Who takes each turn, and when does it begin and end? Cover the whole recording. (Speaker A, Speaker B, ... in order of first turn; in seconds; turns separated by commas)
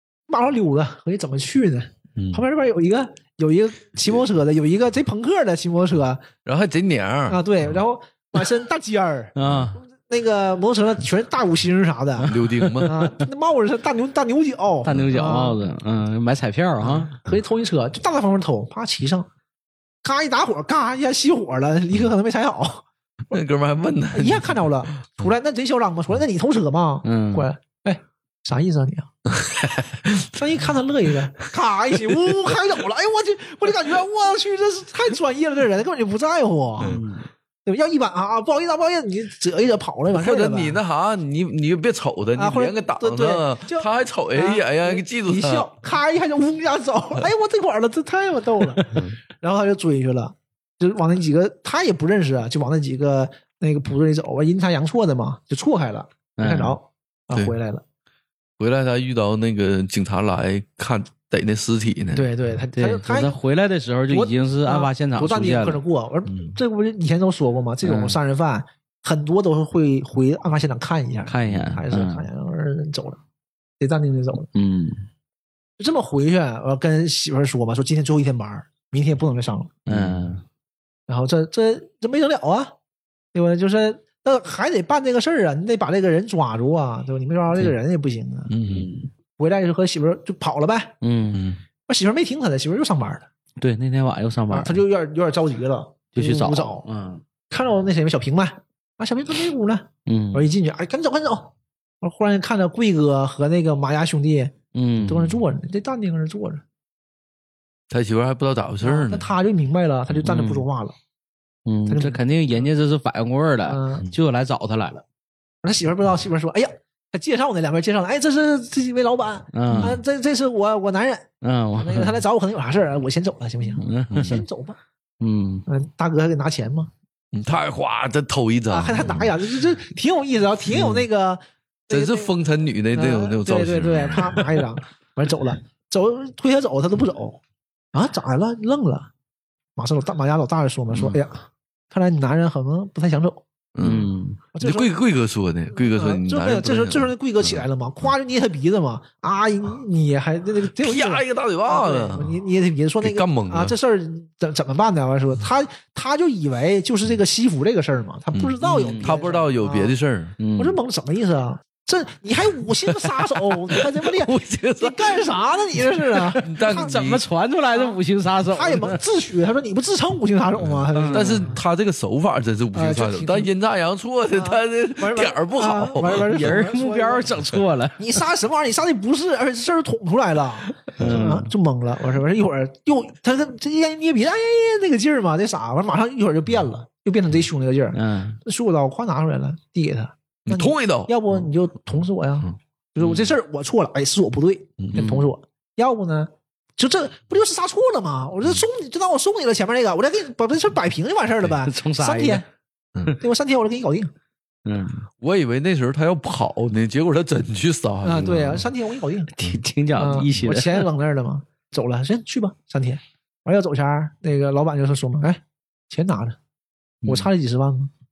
Speaker A: 0.3-6.2, Speaker B: 2.2-2.4, Speaker B: 6.5-7.4, Speaker A: 7.3-15.6, Speaker C: 9.4-9.8, Speaker C: 12.2-13.1, Speaker B: 12.3-13.1, Speaker C: 14.8-17.1, Speaker A: 16.8-19.3, Speaker A: 20.0-22.9, Speaker B: 23.3-24.7, Speaker A: 24.1-29.1, Speaker C: 27.0-27.5, Speaker B: 29.3-30.4, Speaker A: 30.3-37.0, Speaker C: 36.8-37.3, Speaker A: 37.6-40.8, Speaker B: 40.1-45.7, Speaker A: 42.4-57.8, Speaker C: 56.4-56.8, Speaker B: 58.6-62.3, Speaker A: 62.1-63.4, Speaker C: 62.8-65.8, Speaker A: 64.1-73.2, Speaker B: 66.3-66.5, Speaker C: 67.8-68.2, Speaker C: 71.3-72.3, Speaker B: 71.5-71.8, Speaker A: 73.8-74.5, Speaker C: 74.5-75.0, Speaker A: 75.8-79.8, Speaker B: 79.9-80.3, Speaker C: 79.9-80.4, Speaker A: 81.1-82.7, Speaker A: 83.3-88.5, Speaker B: 88.5-88.9, Speaker C: 88.7-89.1, Speaker A: 89.4-90.9, Speaker C: 91.0-91.5, Speaker B: 91.3-91.6, Speaker A: 91.9-93.3, Speaker C: 93.6-94.8, Speaker A: 94.5-96.8, Speaker C: 96.2-97.2, Speaker A: 97.5-104.5, Speaker C: 100.1-100.5, Speaker C: 104.7-105.4, Speaker A: 105.0-106.6, Speaker B: 107.9-109.3, Speaker A: 108.8-111.0, Speaker C: 110.2-110.7, Speaker C: 111.7-115.0, Speaker A: 111.9-112.2, Speaker A: 113.7-114.1, Speaker A: 115.6-124.8, Speaker C: 119.5-120.0, Speaker B: 119.7-120.0, Speaker C: 121.4-122.2, Speaker C: 123.8-124.4, Speaker B: 124.1-124.4, Speaker C: 125.2-125.7, Speaker A: 125.7-126.9, Speaker B: 127.3-129.3, Speaker A: 128.7-132.3, Speaker B: 131.9-134.7, Speaker A: 132.9-137.4, Speaker A: 137.9-139.1, Speaker A: 139.8-143.4, Speaker B: 140.9-141.2, Speaker B: 143.8-147.7, Speaker C: 143.8-144.4, Speaker A: 144.5-144.9, Speaker A: 145.7-159.9, Speaker B: 150.8-152.4, Speaker B: 153.0-153.8, Speaker B: 158.3-160.4, Speaker C: 158.6-159.2, Speaker C: 160.4-160.8, Speaker A: 160.6-166.9, Speaker B: 163.7-165.4, Speaker C: 166.1-169.0, Speaker B: 166.4-167.2, Speaker A: 167.7-168.0, Speaker A: 168.5-171.5, Speaker B: 170.6-176.6, Speaker C: 170.9-171.5, Speaker A: 172.7-173.5, Speaker A: 174.3-177.3, Speaker C: 176.2-178.2, Speaker A: 178.0-202.4, Speaker B: 181.0-181.3, Speaker C: 181.0-181.5, Speaker C: 187.9-188.4, Speaker B: 190.5-191.2, Speaker C: 195.0-195.3, Speaker C: 201.6-202.4, Speaker A: 203.1-204.1, Speaker C: 204.7-205.0, Speaker B: 205.2-208.7, Speaker A: 208.0-209.3, Speaker C: 209.3-210.9, Speaker A: 210.0-216.4, Speaker A: 217.1-217.9